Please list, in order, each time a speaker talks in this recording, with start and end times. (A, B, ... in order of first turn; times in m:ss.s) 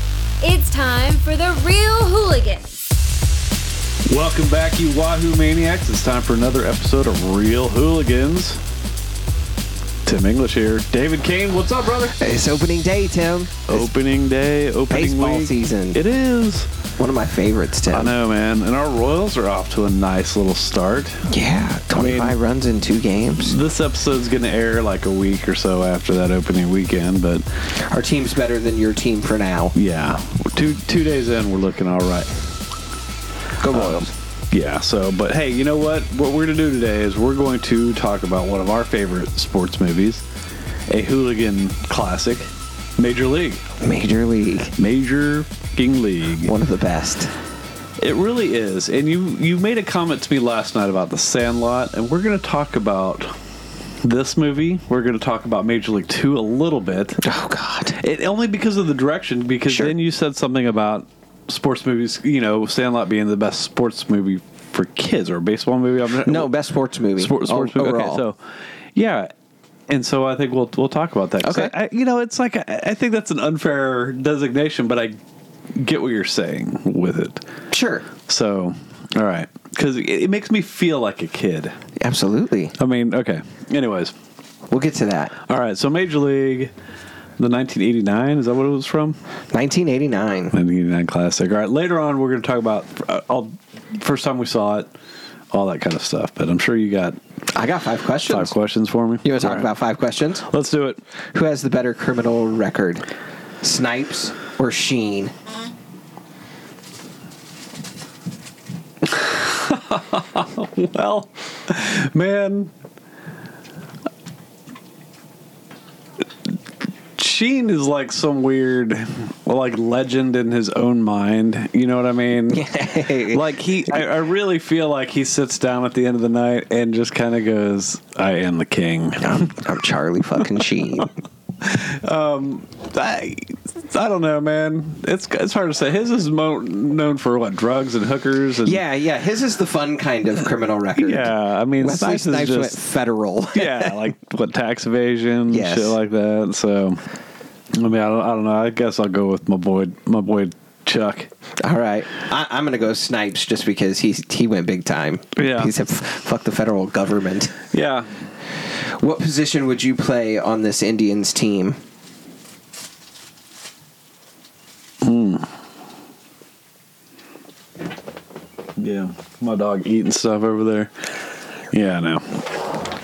0:00.4-0:02.7 A
0:04.1-0:08.6 B
0:10.0-0:12.2 B
0:12.1-0:13.9 C
0:13.7-0:16.7 B
0:14.9-0:16.0 C
0:17.0-0:18.1 C
0:17.9-0:21.3 B
0:21.3-0:23.6 C
0:21.9-0:22.4 B
0:23.4-0:27.4 B
0:27.7-0:29.8 C
0:29.8-0:32.3 B
0:33.6-0:34.1 C
0:33.7-0:40.2 B
0:40.9-0:43.6 B
0:43.8-0:44.8 C
0:44.8-0:46.5 B
0:46.4-0:47.3 C
0:48.0-0:53.4 B
0:54.0-0:57.2 B
0:57.2-0:58.0 C
0:58.0-1:06.5 B
0:59.7-1:00.0 C
1:06.2-1:08.2 C
1:07.2-1:09.3 B
1:09.9-1:15.2 B
1:11.4-1:11.7 C
1:15.7-1:17.4 B
1:17.7-1:18.1 C
1:18.3-1:21.8 B
1:22.0-1:22.8 C
1:22.8-1:24.2 B
1:24.7-1:25.4 C
1:25.4-1:26.7 B
1:27.4-1:29.2 B
1:29.5-1:30.6 C
1:30.5-1:34.9 B
1:35.5-1:37.2 B
1:37.5-1:38.5 C
1:38.2-1:39.7 B
1:39.2-1:40.5 C
1:40.4-1:41.0 B
1:41.4-1:43.1 C
1:43.6-1:45.3 C
1:49.0-1:52.7 B
1:57.2-2:02.6 B
2:02.5-2:03.4 C
2:03.2-2:09.6 B
2:09.2-2:11.1 C
2:11.6-2:18.8 B
2:18.6-2:24.0 C
2:21.0-2:22.8 B
2:23.5-2:27.0 B
2:25.5-2:26.0 C
2:27.7-2:31.3 B
2:31.6-2:37.6 C
2:35.4-2:35.7 B
2:37.7-2:38.1 B
2:38.8-2:41.8 C
2:45.0-2:45.5 B
2:48.8-2:51.2 B
2:51.7-2:52.5 B